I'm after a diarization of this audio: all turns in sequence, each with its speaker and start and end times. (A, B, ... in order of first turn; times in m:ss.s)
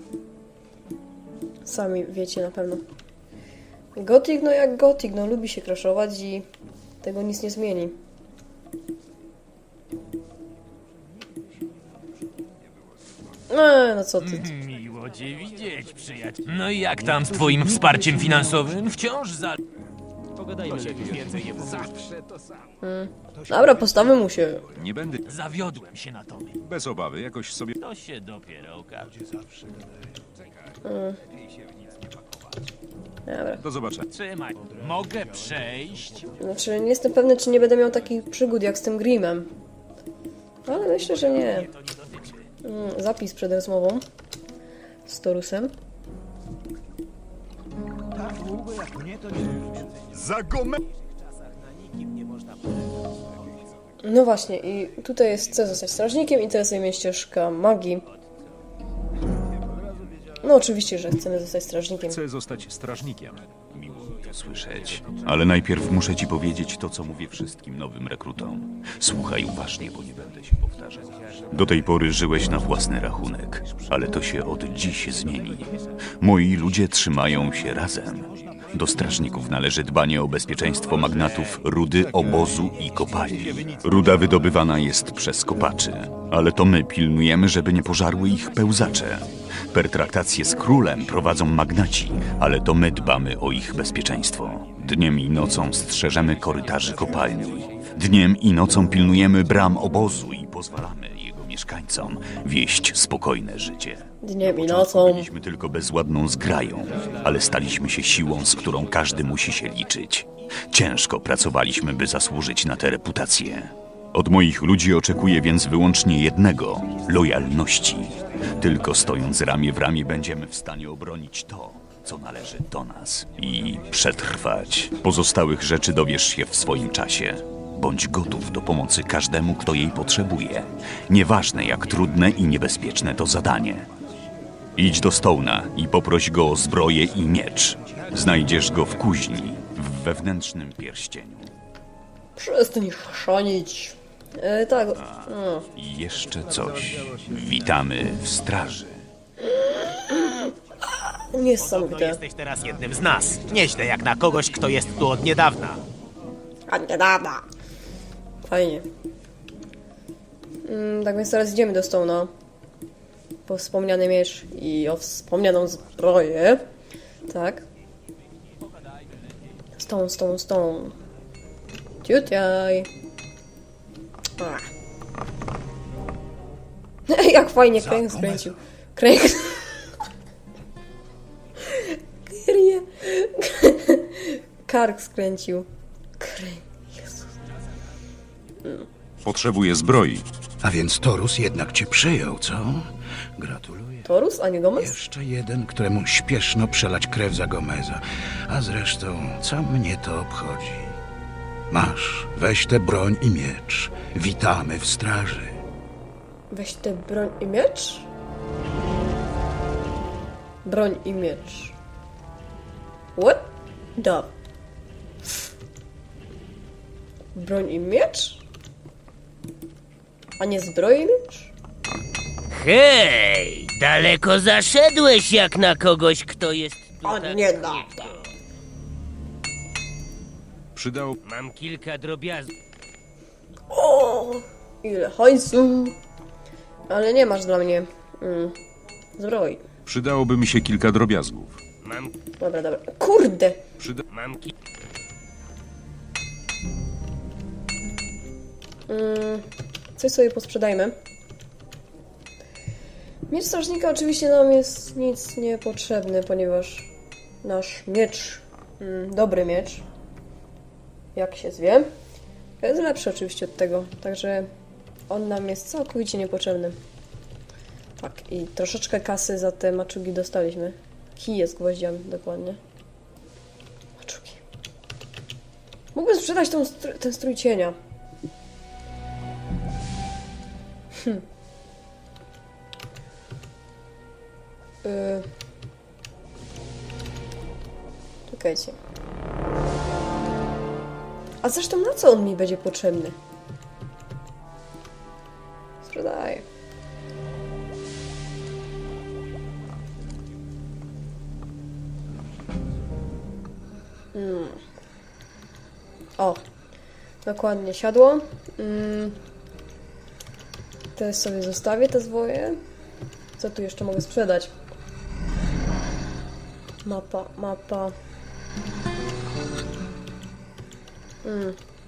0:01.6-0:02.8 A
0:04.0-0:06.5 A
0:07.0-0:08.0 A
0:13.5-0:14.5 A
0:14.2-0:19.6 B
0:20.4-0:22.2 B
0:22.8-0:24.6 A
0:24.7-0:25.2 C
0:25.3-0:26.6 B
0:26.6-0:27.7 C
0:27.8-0:29.1 B
0:30.8-0:31.2 A
0:33.3-0:33.6 A
0:33.6-0:34.1 C
0:34.1-0:36.3 B
0:36.4-0:39.5 A
0:40.7-0:41.7 A
0:42.6-0:44.0 A
0:45.1-0:45.7 A
0:51.9-0:52.3 D
0:54.0-0:58.1 A
1:00.4-1:02.2 A
1:02.1-1:03.4 C
1:03.7-2:13.9 E
1:44.2-1:45.3 A
2:14.8-2:21.5 E
2:22.4-2:25.7 A
2:25.8-2:29.1 E
2:29.4-2:32.2 A
2:31.6-2:35.8 D
2:36.7-2:37.4 A
2:38.5-2:38.9 A
2:40.6-2:42.3 A
2:43.5-2:46.6 A
2:47.3-2:47.6 A
2:49.8-2:51.0 A
2:52.0-2:52.9 A
2:54.4-2:54.7 A
2:57.1-2:59.9 A
2:57.8-2:58.4 F
3:01.6-3:05.7 A
3:06.2-3:07.3 A
3:09.2-3:10.2 C
3:10.6-3:14.1 F
3:14.1-3:15.0 A
3:14.8-3:21.0 F
3:21.7-3:25.6 F
3:26.5-3:28.1 A
3:30.6-3:31.8 A
3:33.2-3:34.3 A
3:37.4-3:38.4 A
3:40.4-3:41.5 A
3:42.5-3:48.2 G
3:47.0-3:48.1 A
3:50.8-3:51.2 C
3:51.2-3:52.5 G
3:53.7-3:56.0 A
3:56.9-3:58.6 A
3:59.2-3:59.6 A
3:59.9-4:01.6 C
4:02.4-4:03.6 A
4:03.8-4:04.0 C
4:04.1-4:04.4 G
4:08.9-4:09.5 A
4:10.0-4:11.0 A
4:13.3-4:16.9 A
4:17.4-4:19.8 A
4:21.2-4:21.9 A
4:22.6-4:24.5 A
4:25.1-4:26.8 A
4:28.0-4:32.6 A
4:34.0-4:34.4 A
4:35.9-4:37.8 A
4:41.0-4:41.2 A
4:44.8-4:45.3 A
4:48.3-4:48.8 A
4:51.4-4:53.2 A
4:55.8-4:56.4 A
5:04.1-5:04.6 A
5:07.2-5:09.2 A
5:11.0-5:12.6 A
5:13.4-5:14.5 A
5:16.8-5:18.0 A
5:21.2-5:21.6 A